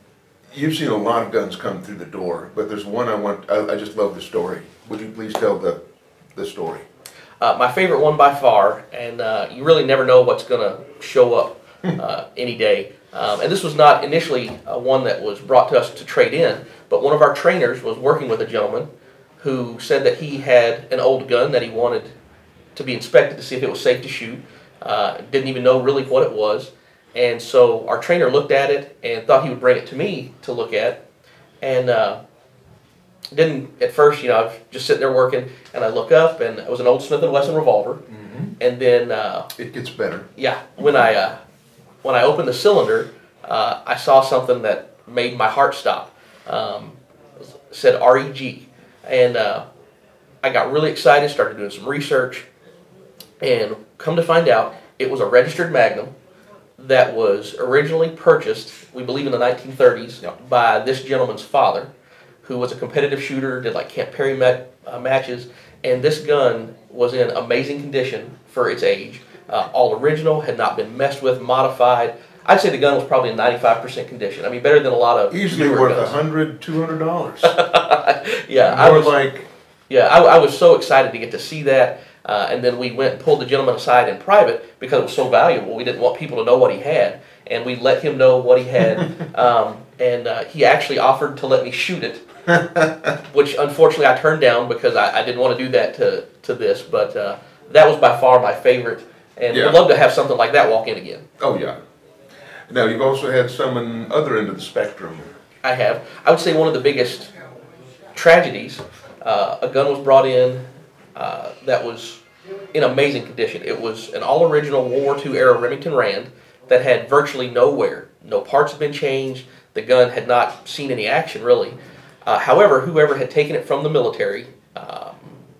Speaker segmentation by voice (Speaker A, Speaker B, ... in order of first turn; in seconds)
Speaker A: 0.5-5.8, 6.3-6.8, 38.1-38.5, 39.5-40.2, 75.3-77.6, 78.6-79.5, 92.6-92.9, 99.5-99.8, 101.4-101.8, 102.7-105.3
Speaker B: 7.4-18.9, 19.4-22.1, 22.8-31.0, 31.6-32.2, 33.3-38.0, 38.6-39.5, 40.4-41.4, 42.0-47.0, 47.7-49.6, 50.4-52.5, 53.4-56.1, 56.8-61.9, 62.4-76.2, 77.4-79.2, 79.9-92.2, 93.3-101.2, 105.6-107.3, 108.1-110.6, 111.1-112.2, 112.7-125.4